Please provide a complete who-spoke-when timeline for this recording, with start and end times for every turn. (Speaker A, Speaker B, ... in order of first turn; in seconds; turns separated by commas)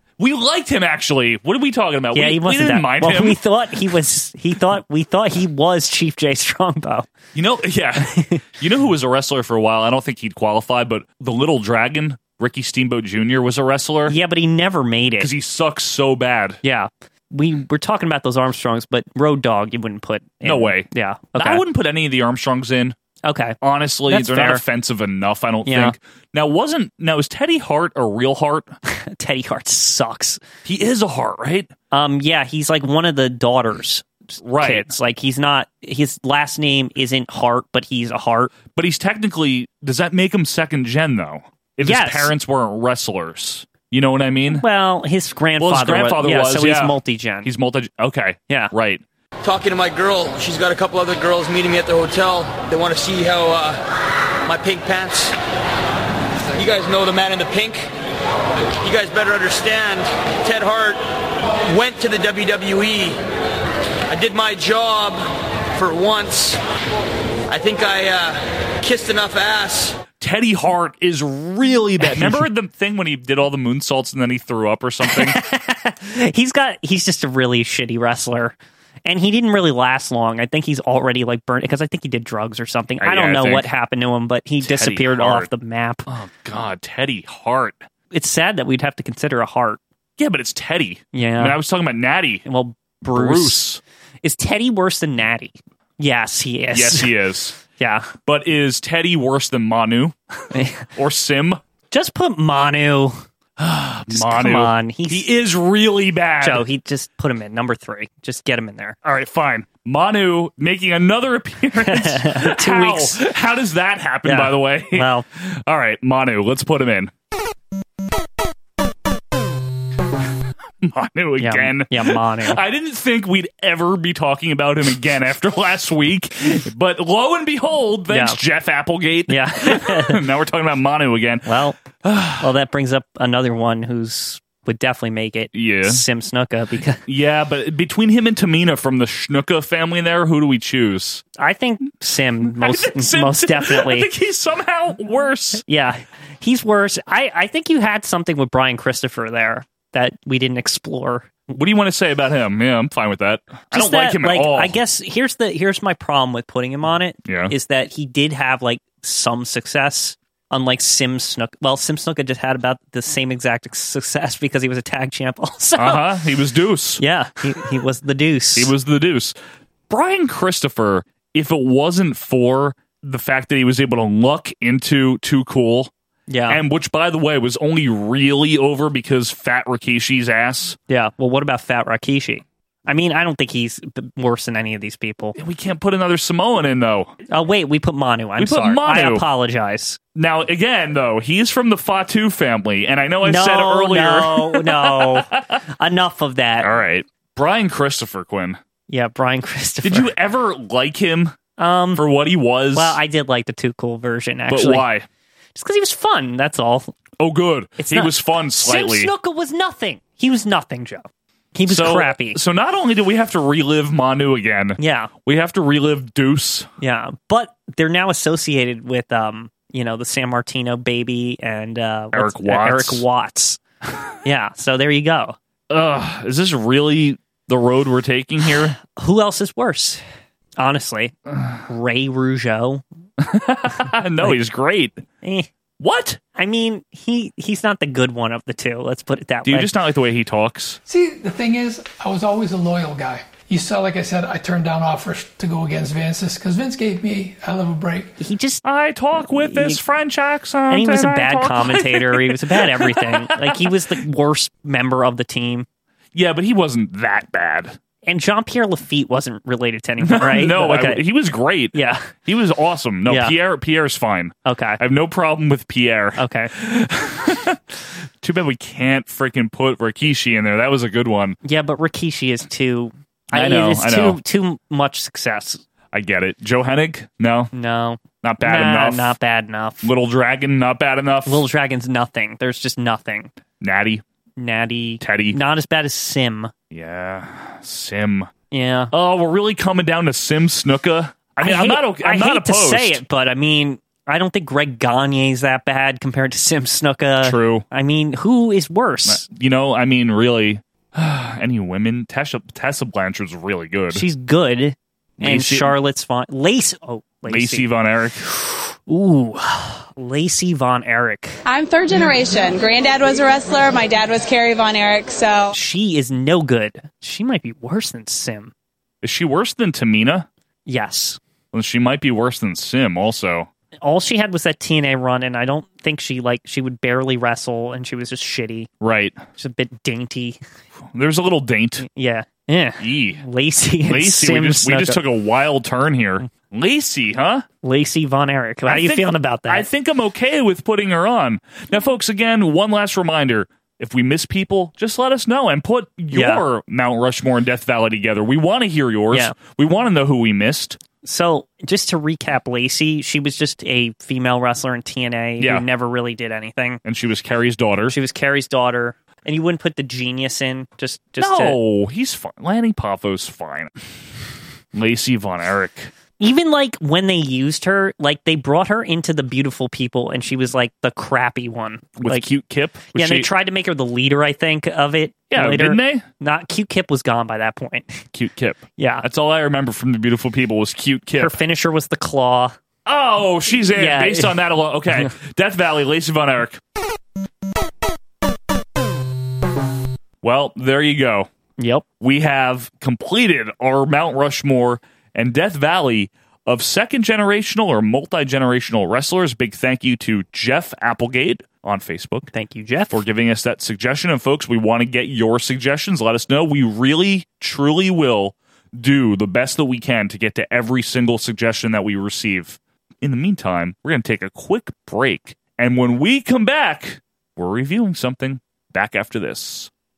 Speaker A: 0.2-3.4, Speaker B: 2.1-7.1, Speaker A: 7.3-14.2, Speaker B: 8.1-8.4, Speaker B: 14.1-15.3, Speaker A: 15.2-16.6, Speaker B: 16.6-21.6, Speaker A: 20.4-22.9, Speaker B: 23.2-23.6, Speaker A: 23.6-28.7, Speaker B: 24.1-24.6, Speaker B: 25.7-25.9, Speaker B: 28.9-30.4, Speaker A: 30.6-31.7, Speaker B: 31.9-34.1, Speaker A: 34.4-34.9, Speaker B: 34.6-38.5, Speaker A: 38.7-44.6, Speaker B: 41.8-42.3, Speaker B: 44.5-47.5, Speaker A: 45.6-49.0, Speaker C: 49.4-53.8, Speaker C: 54.5-55.4, Speaker C: 56.5-57.9, Speaker C: 58.8-61.0, Speaker C: 61.6-63.2, Speaker C: 64.1-66.6, Speaker C: 67.5-70.0, Speaker A: 70.2-75.4, Speaker B: 72.0-72.5, Speaker B: 75.1-86.1, Speaker A: 83.0-83.7, Speaker A: 84.6-85.5, Speaker A: 86.1-87.8, Speaker B: 88.1-89.8, Speaker A: 90.2-92.5, Speaker B: 91.1-91.6, Speaker B: 92.5-93.6, Speaker A: 93.1-93.8, Speaker B: 94.2-97.1, Speaker A: 96.7-97.6, Speaker B: 97.6-98.1, Speaker A: 98.2-100.2, Speaker B: 100.5-100.8, Speaker A: 101.0-101.6, Speaker B: 101.9-103.2, Speaker A: 103.6-106.6, Speaker B: 104.1-105.3, Speaker B: 106.4-109.0, Speaker A: 109.0-117.1, Speaker B: 111.8-113.2, Speaker B: 114.3-115.2, Speaker A: 120.8-131.5, Speaker B: 121.4-122.6, Speaker B: 128.1-128.4, Speaker B: 129.3-130.2, Speaker B: 131.5-131.8, Speaker A: 132.0-132.4, Speaker B: 132.4-137.0, Speaker A: 135.5-136.0, Speaker A: 137.1-141.2, Speaker B: 141.4-144.1, Speaker A: 142.4-145.6, Speaker B: 145.7-151.4, Speaker A: 151.5-154.8, Speaker B: 153.7-166.0, Speaker A: 157.3-157.5, Speaker A: 165.8-167.0, Speaker B: 167.0-168.7, Speaker A: 168.6-169.3, Speaker A: 169.9-175.9, Speaker B: 176.3-176.6, Speaker A: 176.5-180.8, Speaker B: 180.9-185.3, Speaker A: 185.4-187.1, Speaker B: 187.3-190.0, Speaker A: 188.4-189.2, Speaker A: 190.2-195.6, Speaker B: 193.2-195.3, Speaker B: 195.8-196.7, Speaker A: 196.6-198.6, Speaker B: 198.9-200.1, Speaker A: 199.8-201.3, Speaker B: 201.6-202.0, Speaker A: 202.0-203.0, Speaker B: 202.7-204.9, Speaker A: 204.5-205.1, Speaker B: 205.6-206.9, Speaker A: 207.2-209.1, Speaker B: 207.8-212.4, Speaker A: 211.7-216.7, Speaker B: 214.8-215.1, Speaker B: 216.8-223.6, Speaker A: 222.1-223.0, Speaker B: 224.2-225.4, Speaker A: 225.7-228.8, Speaker B: 228.8-230.0, Speaker B: 230.6-231.2, Speaker A: 231.3-231.6, Speaker B: 231.7-232.8, Speaker A: 233.2-235.0, Speaker B: 235.2-235.5, Speaker A: 235.8-236.2, Speaker B: 236.4-239.7, Speaker A: 239.5-240.8, Speaker D: 240.9-248.1, Speaker B: 248.2-248.6, Speaker A: 248.7-253.7, Speaker B: 249.4-249.8, Speaker B: 250.7-255.7, Speaker A: 256.1-257.8, Speaker B: 258.1-261.0, Speaker A: 260.0-267.6, Speaker B: 261.7-262.1, Speaker B: 263.1-263.4, Speaker B: 264.5-264.8, Speaker B: 266.2-266.5, Speaker A: 268.2-271.4, Speaker B: 271.4-275.6, Speaker A: 273.3-274.2, Speaker A: 275.9-277.5, Speaker B: 277.5-279.9, Speaker A: 278.2-279.1, Speaker A: 279.8-281.4, Speaker B: 281.3-283.3, Speaker A: 283.6-284.0, Speaker B: 284.4-286.5, Speaker A: 285.0-285.4, Speaker A: 286.7-288.3, Speaker B: 288.5-288.9, Speaker A: 288.9-293.0, Speaker B: 291.4-299.2, Speaker A: 297.2-297.6, Speaker A: 299.1-304.0, Speaker B: 303.9-307.7, Speaker A: 305.2-305.8, Speaker A: 307.3-308.2, Speaker B: 308.3-311.4, Speaker E: 311.5-315.3, Speaker B: 315.5-318.5, Speaker A: 319.0-320.3, Speaker B: 320.7-321.2, Speaker A: 321.5-323.5, Speaker B: 323.8-328.7, Speaker A: 328.8-329.2, Speaker B: 329.4-330.4, Speaker A: 330.9-331.9, Speaker B: 331.8-335.0, Speaker A: 332.8-333.2, Speaker A: 333.9-337.4, Speaker B: 337.6-339.7, Speaker A: 338.7-350.8, Speaker B: 346.1-346.4, Speaker B: 351.0-356.8, Speaker A: 356.8-357.9, Speaker B: 357.9-361.6, Speaker A: 361.2-363.7, Speaker A: 364.7-365.9, Speaker B: 366.2-372.2, Speaker A: 372.0-373.3, Speaker B: 372.9-378.0, Speaker A: 375.3-376.1, Speaker A: 378.1-381.4, Speaker B: 378.8-379.0, Speaker B: 381.2-382.6, Speaker A: 382.9-386.6, Speaker B: 383.8-384.4, Speaker A: 390.2-391.3, Speaker B: 391.6-391.9, Speaker A: 392.0-402.3, Speaker B: 402.3-403.0, Speaker A: 402.9-419.7